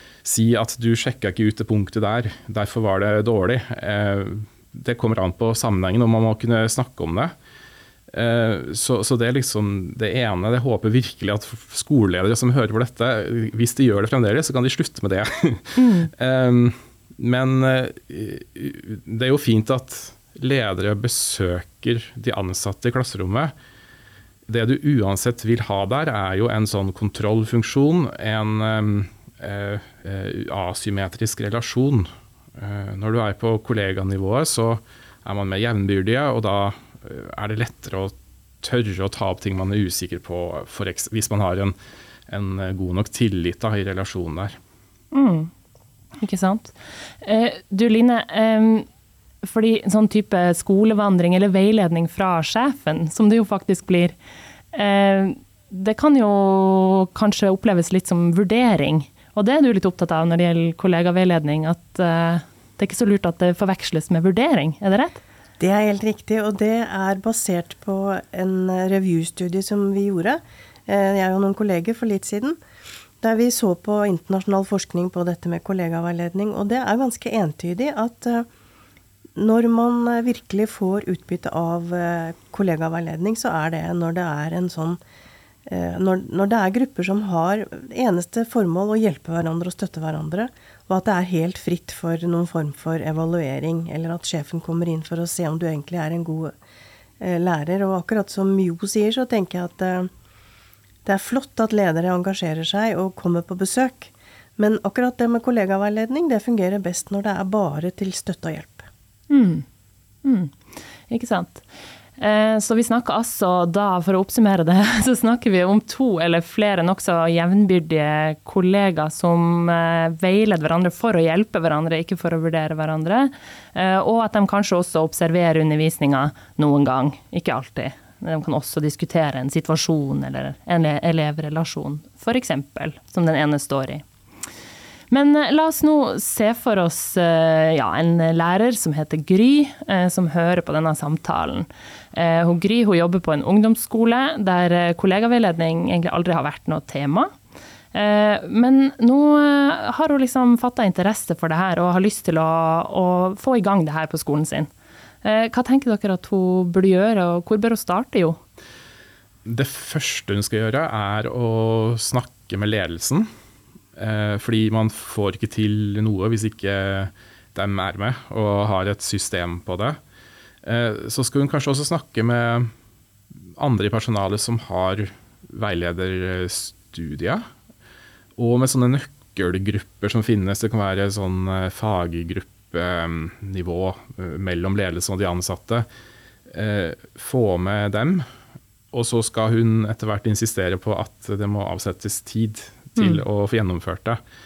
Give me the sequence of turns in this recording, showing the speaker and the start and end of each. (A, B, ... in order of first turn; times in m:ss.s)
0:00.2-0:07.3 A
0:08.1-0:23.5 A
0:15.8-0:16.1 B
0:24.5-0:41.8 A
0:42.3-0:44.6 A
0:45.1-0:45.5 B
0:46.2-0:48.9 B
0:49.4-0:54.2 B
0:54.7-1:05.2 B
1:05.6-1:12.6 C
1:13.2-1:18.5 C
1:19.4-1:25.0 C
1:25.7-1:36.5 C
1:37.2-1:40.1 C
1:41.0-1:48.9 C
1:49.3-1:49.7 B
1:50.2-1:50.6 B
1:51.1-1:51.7 B
1:52.2-2:14.0 B
2:15.1-2:27.3 B
2:27.9-2:34.7 B
2:35.2-2:38.4 B
2:39.4-2:43.3 A
2:44.0-2:50.0 A
2:50.6-2:52.7 A
2:53.6-2:57.4 A
2:58.4-3:05.9 A
3:06.5-3:08.3 A
3:08.9-3:14.2 A
3:13.0-3:13.2 B